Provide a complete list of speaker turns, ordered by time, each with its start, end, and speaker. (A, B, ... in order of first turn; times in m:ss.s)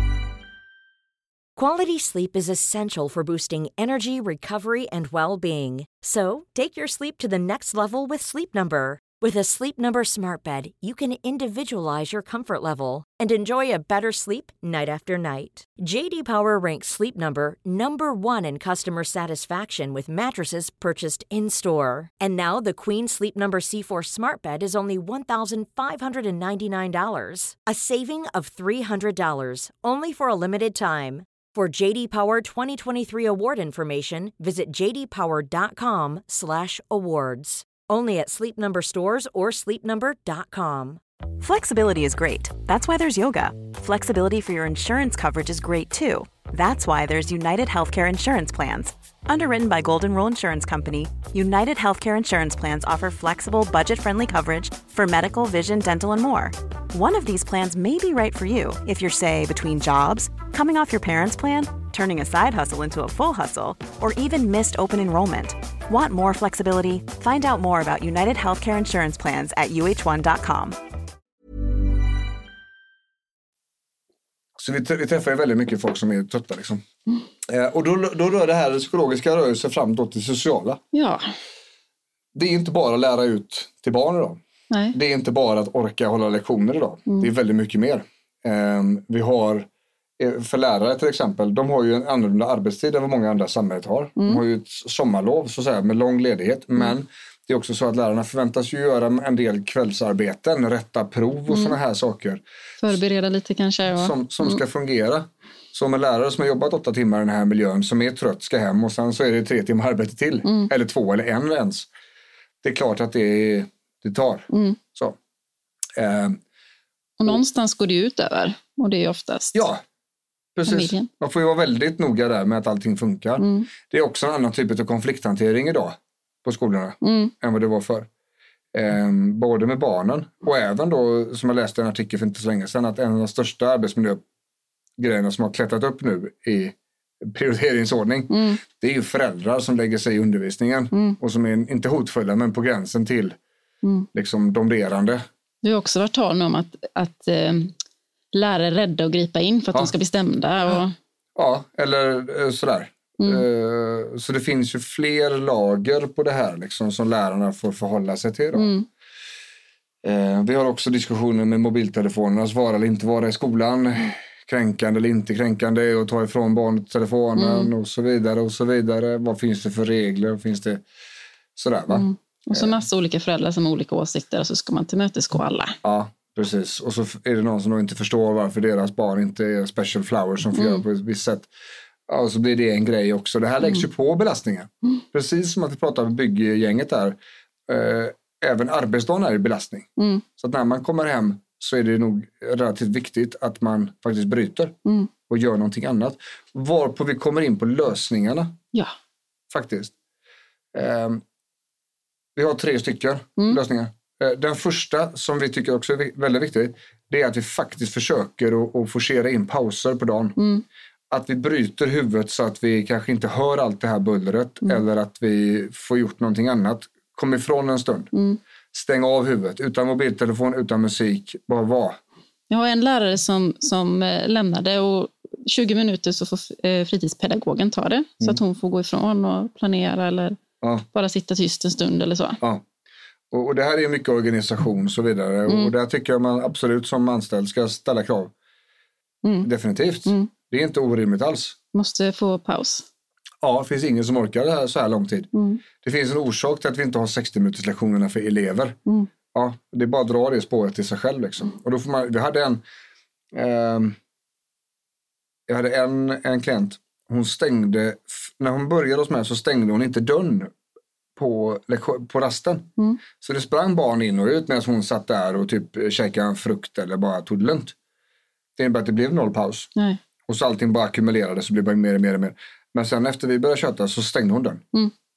0:01.6-0:41.0 A
0:41.4-1:10.8 B
1:14.6-1:16.8 C
1:17.5-1:20.8 C
1:20.9-1:21.2 D
1:22.3-1:24.4 C
1:24.7-1:25.0 D
1:24.9-1:42.4 C
1:41.5-1:41.7 D
1:42.8-1:44.6 D
1:43.9-1:51.9 C
1:50.4-1:50.7 D
1:52.6-1:55.2 C
1:54.5-1:54.8 D
1:56.0-1:56.4 C
1:57.2-1:59.6 D
1:59.5-1:59.8 C
2:00.5-2:08.1 C
2:00.6-2:01.1 D
2:03.4-2:03.7 D
2:07.0-2:07.3 D
2:08.7-2:14.2 C
2:15.0-2:23.4 C
2:18.3-2:18.6 D
2:24.1-2:25.2 C
2:25.6-2:27.7 D
2:28.3-2:30.9 D
2:31.4-2:38.7 C
2:38.5-2:38.9 D
2:40.0-2:50.8 C
2:47.4-2:47.7 D
2:51.6-2:52.7 C
2:51.9-2:55.8 D
2:55.8-3:01.5 C
3:00.5-3:00.8 D
3:02.1-3:14.8 C
3:10.0-3:10.2 D
3:15.3-3:18.6 C
3:19.5-3:19.9 C
3:20.7-3:21.2 C
3:22.3-3:30.4 C
3:30.4-3:30.6 D
3:31.1-3:38.1 C
3:38.1-3:38.4 D
3:38.7-3:42.0 C
3:42.5-3:50.4 D
3:50.9-3:52.4 D
3:53.3-3:58.3 C
3:59.4-4:01.6 C
4:01.7-4:02.8 D
4:03.4-4:05.3 C
4:05.3-4:05.6 D
4:05.8-4:08.8 C
4:09.3-4:12.6 C
4:13.3-4:14.0 C
4:15.5-4:20.5 C
4:21.2-4:27.7 C
4:28.6-4:29.7 C
4:30.3-4:34.6 C